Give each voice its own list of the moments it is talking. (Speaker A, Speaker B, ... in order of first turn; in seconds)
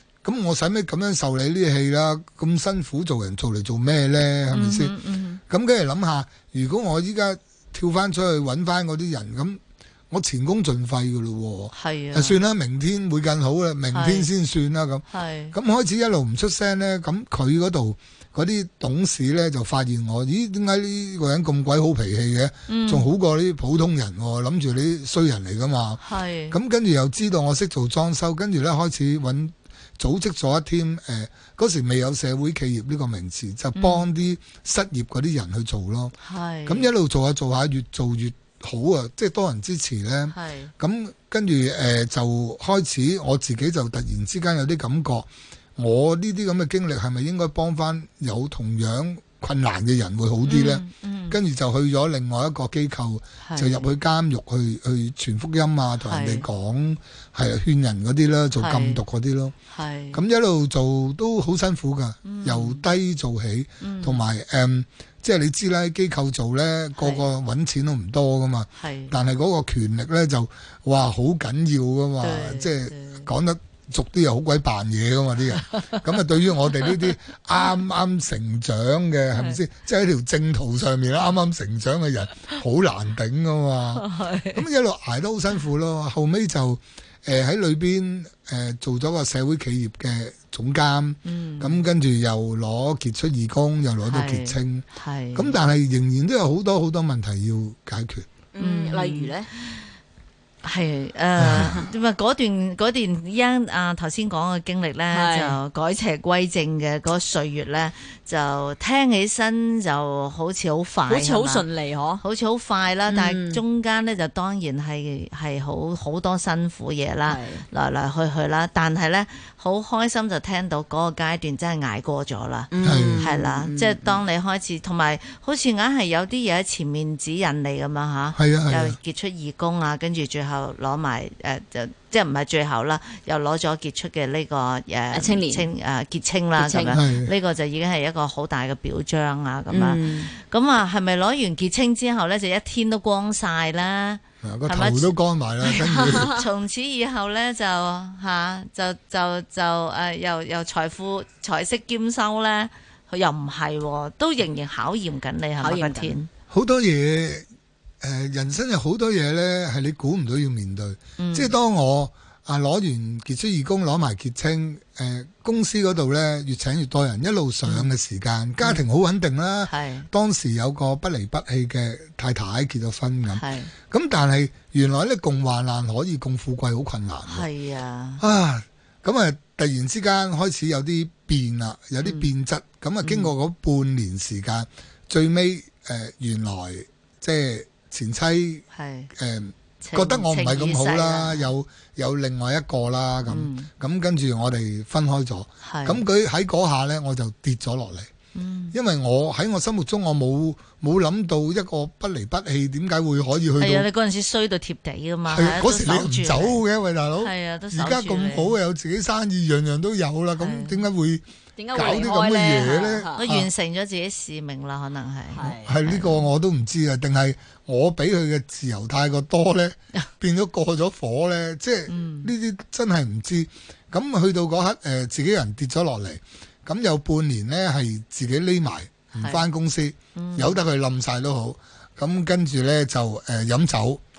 Speaker A: 0.2-4.9, 5.5-36.1, 36.7-59.5, 60.1-98.3, 101.4-101.7, 122.8-123.3, 128.3-129.0, 136.9-137.3, 144.4-146.4, 156.5-157.5, 158.0-177.5, 178.2-198.1, 198.7-203.9, 205.3-213.5, 215.7-234.0
Speaker B: 4.5-5.4, 11.7-12.4, 13.9-14.3, 15.1-15.5, 22.7-23.1, 26.0-26.6, 33.8-34.0, 36.2-36.9, 40.3-40.7, 50.5-51.4, 53.4-53.8, 56.1-56.5, 58.6-59.0, 59.7-60.2, 62.2-62.9, 63.8-64.2, 67.0-67.2, 68.8-69.1, 72.2-73.3, 75.6-76.0, 76.8-77.0, 84.0-84.6, 91.2-91.8, 94.0-95.6, 98.6-99.8, 100.6-111.7, 112.2-145.1, 145.7-156.3, 161.2-161.5, 167.7-167.9, 169.7-170.1, 173.3-173.7, 177.3-178.2, 183.0-183.3, 188.7-189.1, 189.8-191.5, 193.3-193.7, 195.6-196.0, 198.3-198.8, 203.6-206.6, 207.2-208.6, 210.4-210.8, 213.2-216.3, 221.9-222.3, 229.2-229.4, 230.2-230.6
Speaker C: 98.5-99.5, 101.6-101.8, 105.1-105.6, 111.1-112.2, 113.1-113.6, 117.3-117.7, 122.7-124.2, 135.1-135.7, 136.6-137.0, 139.7-140.3, 145.8-146.4, 155.6-156.2, 211.6-213.2, 215.3-215.7